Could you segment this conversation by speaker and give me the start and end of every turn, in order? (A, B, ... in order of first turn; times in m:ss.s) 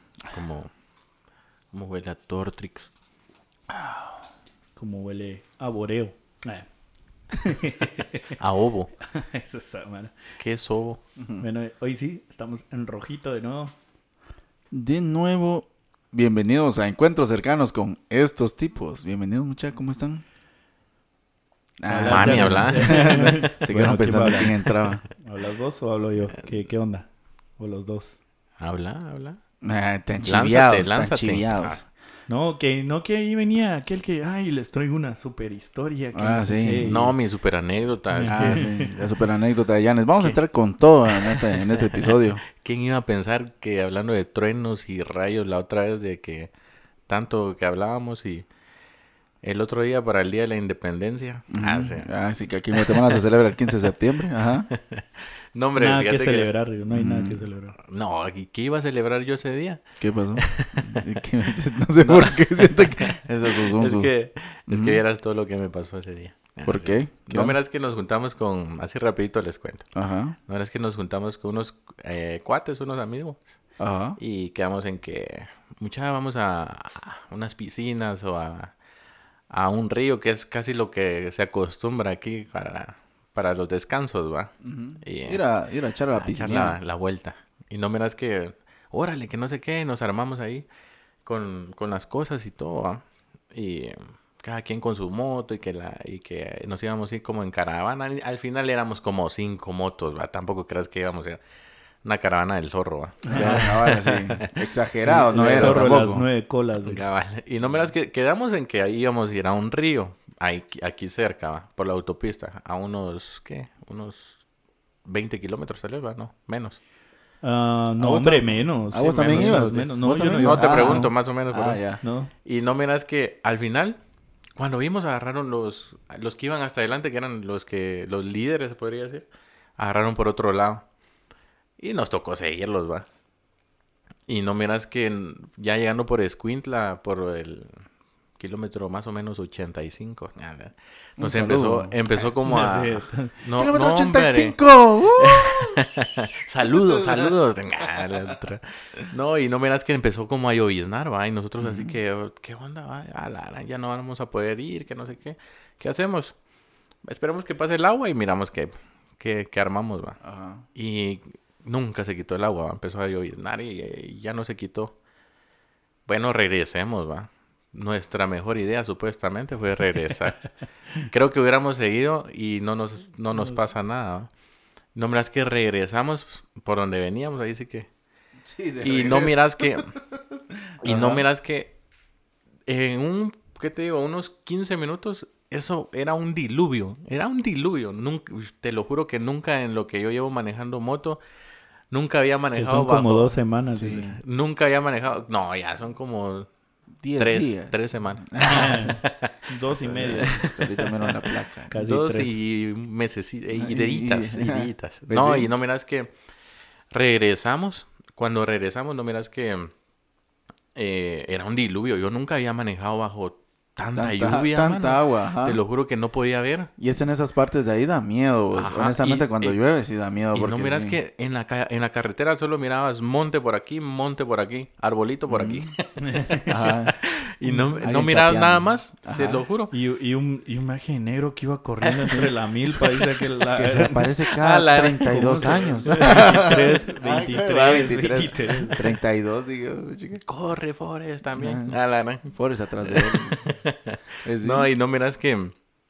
0:00.3-0:00.7 A
0:01.7-0:02.9 A
0:04.8-0:06.6 B
0:07.3-0:08.4 B
0:08.4-0:08.9 A
0:09.1-0:10.2 B
0:10.4-0:11.0 A
0:11.2-0:11.4 C
0:11.4-0:13.7 B
0:14.7-0:20.2 C
0:21.8-0:25.0 C
0:21.9-0:24.6 B
0:22.1-0:23.5 A
0:24.2-0:25.0 A
0:25.1-0:27.1 B
0:26.3-0:26.6 A
0:27.6-0:28.2 B
0:28.6-0:29.4 A
0:29.6-0:31.9 C
0:30.2-0:31.8 A
0:32.3-0:37.1 B
0:36.1-0:37.1 C
0:36.8-0:38.7 A
0:38.1-0:38.9 B
0:38.3-0:42.4 C
0:42.0-0:46.5 A
0:47.1-0:48.5 A
0:49.4-0:52.1 A
0:51.5-0:54.7 C
0:52.7-0:53.2 A
0:54.7-0:56.5 A
0:55.8-0:57.8 B
0:56.9-0:57.4 C
0:57.8-0:59.8 A
1:00.0-1:04.1 C
1:00.4-1:01.2 A
1:02.0-1:09.9 A
1:04.7-1:05.0 C
1:06.6-1:07.6 C
1:09.9-1:10.4 C
1:10.5-1:13.5 A
1:13.8-1:14.2 C
1:14.2-1:18.8 A
1:19.5-1:25.4 A
1:24.6-1:26.8 C
1:26.2-1:30.7 A
1:31.2-1:41.4 A
1:42.0-1:44.5 A
1:43.2-1:43.7 B
1:43.3-1:46.2 C
1:45.1-1:45.9 A
1:45.2-1:47.0 B
1:46.8-1:54.4 A
1:55.0-1:56.8 A
1:57.4-2:01.1 B
1:58.0-2:02.0 C
1:59.0-1:59.6 A
2:00.3-2:01.8 A
2:02.0-2:02.3 B
2:02.4-2:04.0 A
2:04.6-2:10.8 A
2:11.8-2:13.1 A
2:14.3-2:24.6 A
2:21.2-2:22.3 C
2:22.4-2:23.4 B
2:23.6-2:25.8 C
2:25.2-2:36.4 A
2:26.9-2:27.2 C
2:31.6-2:31.9 C
2:37.0-2:40.2 A
2:40.2-2:40.6 C
2:40.7-2:45.0 A
2:46.1-2:50.4 A
2:51.0-2:54.3 A
2:54.9-2:57.9 A
2:58.4-3:00.0 C
2:58.8-2:59.9 A
3:00.8-3:01.2 C
3:00.8-3:01.7 A
3:02.6-3:11.2 A
3:11.9-3:13.4 A
3:12.6-3:14.2 B
3:13.7-3:14.2 C
3:13.9-3:16.5 A
3:17.0-3:19.0 C
3:17.2-3:19.3 A
3:18.4-3:20.4 B
3:19.7-3:21.7 C
3:20.0-3:21.2 A
3:21.7-3:22.3 B
3:21.7-3:26.1 A
3:23.5-3:25.5 C
3:26.9-3:29.7 A
3:30.7-3:36.7 A
3:33.9-3:35.6 C
3:36.8-3:41.0 C
3:38.5-3:39.6 A
3:40.3-3:46.0 A
3:45.3-3:45.7 C
3:46.0-3:46.9 B
3:46.5-3:47.0 C
3:47.0-3:49.7 A
3:47.4-3:47.8 B
3:47.8-3:49.4 C
3:49.7-3:58.8 B
3:51.8-3:53.1 A
3:53.5-4:00.2 C
3:54.3-3:56.2 A
4:00.2-4:02.3 A
4:01.4-4:01.8 C
4:02.3-4:03.4 C
4:02.9-4:05.5 A
4:04.2-4:04.7 C